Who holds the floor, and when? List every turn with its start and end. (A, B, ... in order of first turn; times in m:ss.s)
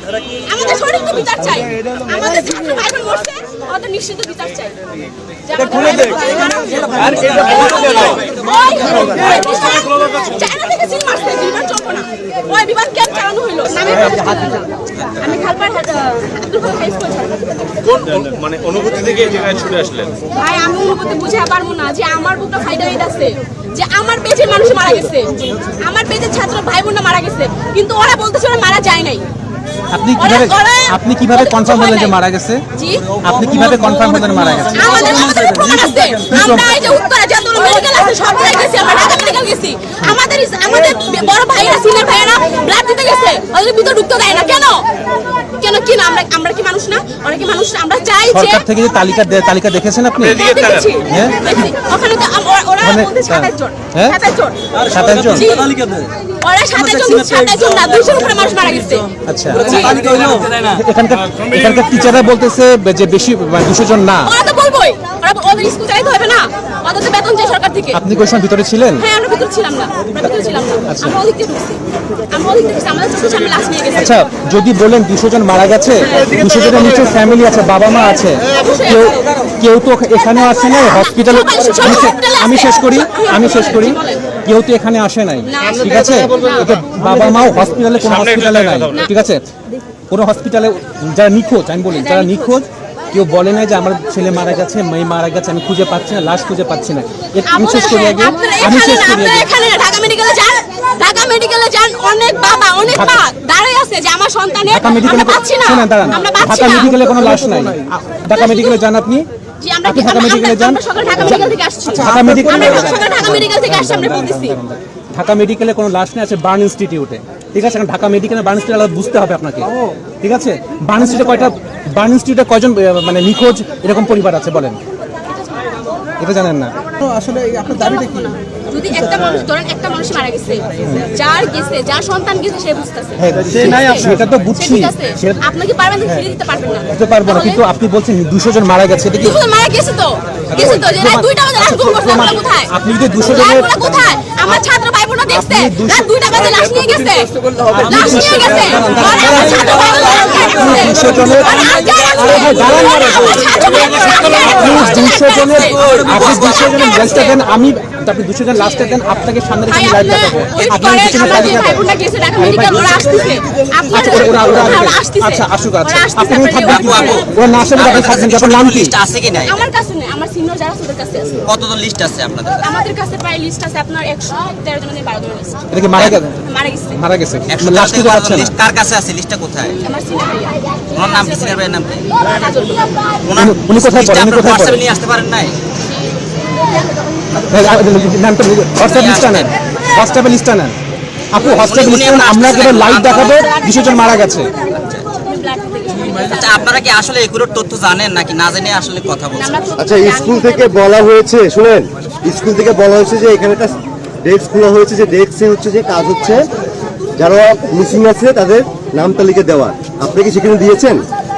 0:00.4-0:04.9 A
0:05.4-0:17.7 A
0:17.9-0:20.2 B
0:20.3-0:29.3 A
0:29.9-0:32.6 C
0:30.2-0:32.2 A
0:32.7-0:33.1 A
0:33.2-0:35.2 C
0:33.3-0:34.1 D
0:34.7-0:44.8 A
0:35.4-0:36.2 D
0:36.2-0:36.8 C
0:45.6-0:48.6 A
0:48.3-0:51.7 C
0:50.2-0:54.6 A
0:50.5-0:50.9 B
0:52.8-0:54.2 C
0:54.8-0:56.1 D
0:54.9-0:55.6 C
0:55.2-0:55.8 A
0:56.4-1:00.3 A
0:56.9-0:57.8 D
0:59.3-1:04.3 C
0:59.7-1:00.7 D
1:04.2-1:08.0 A
1:07.9-1:09.0 C
1:09.0-1:14.3 A
1:10.9-1:11.2 C
1:14.0-1:29.5 C
1:16.1-1:16.4 A
1:18.4-1:19.3 A
1:20.7-1:24.3 A
1:25.4-1:26.8 A
1:27.0-1:27.4 B
1:28.0-1:28.9 B
1:30.1-1:39.5 C
1:31.9-1:32.6 A
1:37.4-1:47.0 A
1:42.9-1:43.3 C
1:44.7-1:49.3 C
1:47.0-1:47.8 D
1:48.3-1:48.8 A
1:49.6-1:54.6 A
1:49.8-1:59.7 C
1:51.9-1:52.8 D
2:00.2-2:04.8 C
2:05.3-2:05.8 A
2:06.2-2:06.7 C
2:07.0-2:08.3 D
2:07.7-2:17.6 A
2:10.8-2:11.1 C
2:13.2-2:15.4 C
2:16.9-2:19.4 C
2:19.1-2:37.4 A
2:20.5-2:24.6 C
2:25.3-2:26.1 C
2:26.5-2:27.5 B
2:27.7-2:43.3 C
2:29.6-2:32.2 D
2:35.8-2:36.5 E
2:39.7-2:47.7 A
2:43.9-2:48.9 C
2:46.7-2:49.6 E
2:49.5-2:51.4 A
2:51.5-2:52.7 E
2:52.6-2:55.6 A
2:55.7-2:56.4 C
2:56.0-2:56.2 E
2:56.4-2:57.0 A
2:57.0-2:58.6 C
2:57.5-2:59.8 E
2:59.8-3:01.6 A
3:00.9-3:02.2 E
3:02.2-3:03.2 A
3:03.2-3:05.6 E
3:03.3-3:04.8 C
3:07.4-3:10.8 C
3:08.8-3:09.6 E
3:11.3-3:14.5 C
3:11.4-3:13.6 E
3:13.2-3:16.7 A
3:14.6-3:15.0 E
3:16.2-3:19.6 E
3:19.3-3:20.9 A
3:19.8-3:26.4 F
3:27.2-3:31.1 F